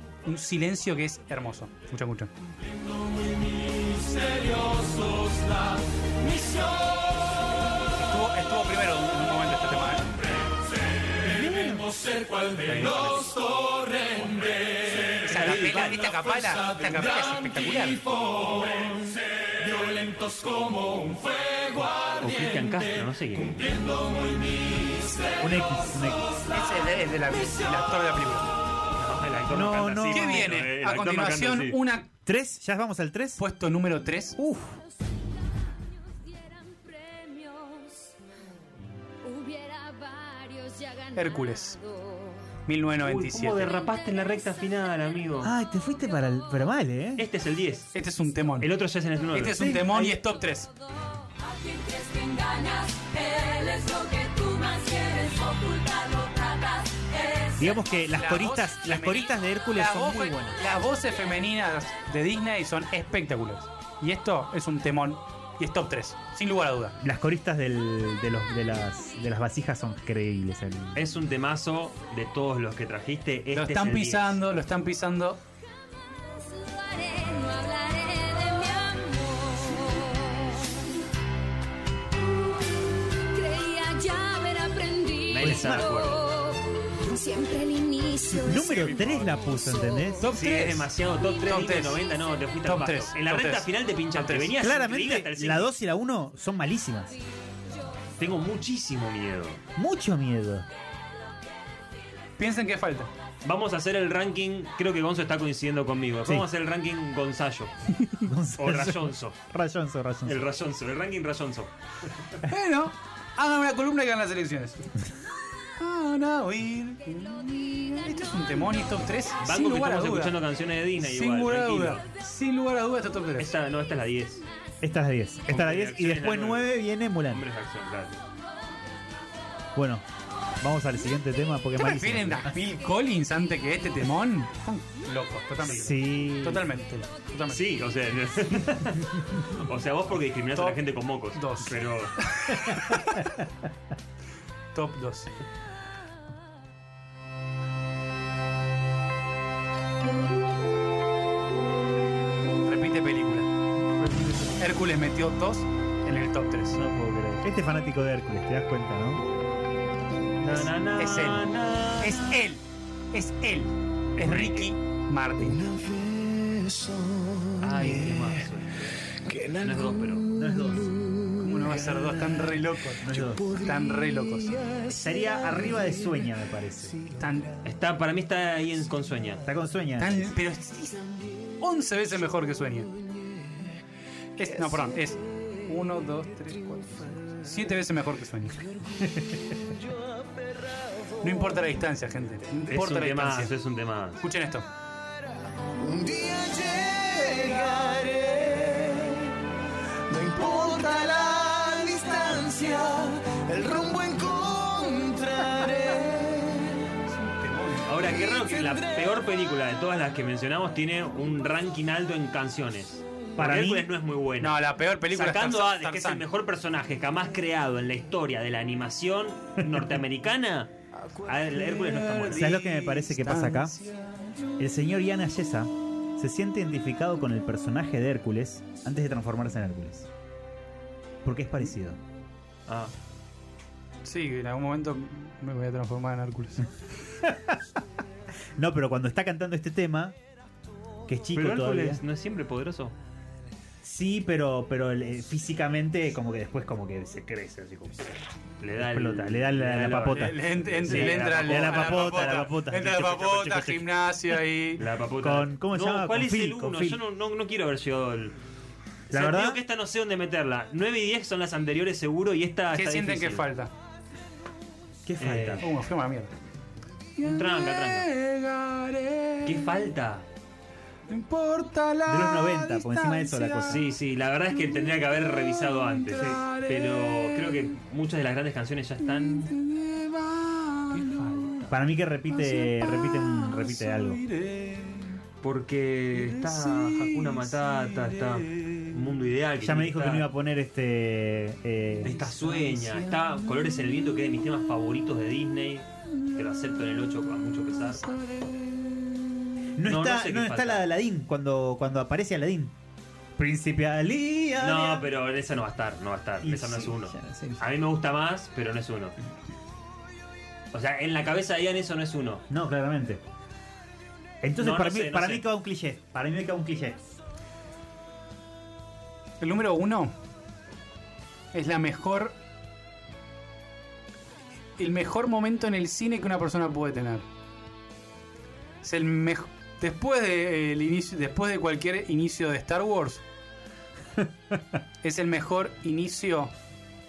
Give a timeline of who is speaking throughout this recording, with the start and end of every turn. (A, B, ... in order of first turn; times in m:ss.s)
0:00.2-0:02.3 A
0:04.0-0:05.6 B
0:06.2-0:06.9 B
0:07.9-0:10.1 A
0:11.3-0:12.1 C
0:12.6-0:13.5 D
0:12.7-0:13.0 C
0:15.2-0:18.0 A
0:15.2-0:16.2 D
0:22.1-0:23.8 D
0:25.4-0:26.4 C
0:26.5-0:28.5 A
0:28.9-0:31.8 D
0:29.5-0:30.6 C
0:30.1-0:32.1 A
0:32.2-0:33.4 C
0:33.4-0:34.4 A
0:34.4-0:34.8 C
0:36.3-0:38.1 E
0:39.2-0:42.4 E
0:41.1-0:41.8 A
0:42.6-0:43.7 A
0:43.0-0:45.5 D
0:45.4-0:47.2 C
0:47.2-0:47.9 D
0:47.9-0:48.7 A
0:48.6-0:49.6 D
0:49.3-0:50.7 A
0:49.6-0:50.2 C
0:51.4-0:57.8 E
0:57.6-1:00.6 C
0:58.1-1:07.0 A
1:07.0-1:11.0 C
1:10.9-1:14.4 D
1:13.5-1:15.4 A
1:16.4-1:20.9 E
1:23.3-1:28.7 E
1:25.3-1:26.2 D
1:25.4-1:26.0 C
1:28.4-1:30.3 C
1:29.6-1:30.0 E
1:30.2-1:30.9 A
1:30.3-1:35.7 D
1:31.4-1:32.0 A
1:32.6-1:34.5 A
1:34.6-1:37.2 C
1:38.2-1:39.6 D
1:39.8-1:40.7 C
1:42.4-1:43.1 A
1:43.4-1:47.7 D
1:48.2-1:50.4 C
1:48.6-1:49.4 D
1:50.2-1:51.7 D
1:52.4-1:54.9 A
1:55.8-2:00.4 A
1:59.4-2:02.0 D
2:01.0-2:03.5 A
2:03.4-2:04.4 D
2:04.8-2:07.4 C
2:05.5-2:08.2 D
2:09.7-2:10.0 C
2:10.6-2:12.6 C
2:11.8-2:17.8 A
2:15.6-2:16.7 C
2:17.5-2:22.2 D
2:21.3-2:23.4 A
2:24.7-2:25.3 A
2:32.6-2:33.5 A
2:34.0-2:34.6 C
2:34.6-2:36.8 A
2:36.7-2:39.2 C
2:40.4-2:42.2 D
2:41.0-2:45.6 A
2:44.2-2:44.7 C
2:45.4-2:48.4 B
2:47.6-2:50.3 D
2:49.1-2:52.5 B
2:50.3-2:50.9 C
2:51.4-2:54.6 A
2:53.0-2:53.5 C
2:53.3-2:56.1 B
2:54.9-2:57.0 C
2:57.2-2:57.5 A
2:57.6-2:59.4 D
2:59.4-3:00.3 C
3:00.0-3:01.0 A
3:01.6-3:02.9 A
3:04.4-3:08.6 A
3:09.0-3:09.6 C
3:09.7-3:10.8 B
3:11.2-3:13.5 A
3:12.7-3:14.2 D
3:14.2-3:14.6 A
3:15.7-3:19.4 B
3:20.1-3:27.0 B
3:27.1-3:27.9 A
3:27.8-3:40.7 D
3:28.2-3:29.0 B
3:33.4-3:33.9 C
3:34.4-3:36.2 A
3:41.2-3:42.5 D
3:42.3-3:43.8 C
3:42.3-3:44.0 A
3:44.6-3:50.1 C
3:51.2-3:52.0 C
3:52.7-3:52.9 D
3:54.0-3:56.7 A
3:57.2-3:57.6 C
3:58.6-4:00.2 C
4:01.1-4:02.0 C
4:01.3-4:02.9 D
4:03.8-4:08.2 C
4:08.6-4:12.5 D
4:08.8-4:13.8 C
4:10.1-4:14.8 A
4:14.8-4:18.4 D
4:15.2-4:17.0 C
4:19.1-4:23.4 D
4:19.1-4:19.6 C
4:22.7-4:23.7 A
4:25.0-4:25.6 C
4:25.2-4:25.6 D
4:25.6-4:26.3 A
4:27.2-4:29.6 A
4:27.2-4:28.1 D
4:29.4-4:30.2 D
4:31.1-4:33.8 A
4:32.0-4:33.8 C
4:33.6-4:39.5 D
4:36.0-4:37.7 A
4:39.0-4:41.7 A
4:41.7-4:44.2 C
4:42.3-4:45.2 A
4:45.4-4:50.3 D
4:46.1-4:48.7 A
4:49.6-4:52.1 C
4:52.0-4:58.1 D
4:52.1-4:53.5 A
4:58.1-4:59.0 A
4:59.8-5:02.7 C
4:59.8-5:00.8 D
5:03.4-5:05.1 C
5:04.6-5:09.2 D
5:06.4-5:07.6 C
5:10.7-5:12.4 D
5:12.5-5:13.2 C
5:14.4-5:17.0 C
5:14.6-5:15.4 D
5:19.4-5:20.1 A
5:21.5-5:22.3 A
5:24.8-5:27.2 A
5:28.8-5:33.2 A
5:35.0-5:36.5 A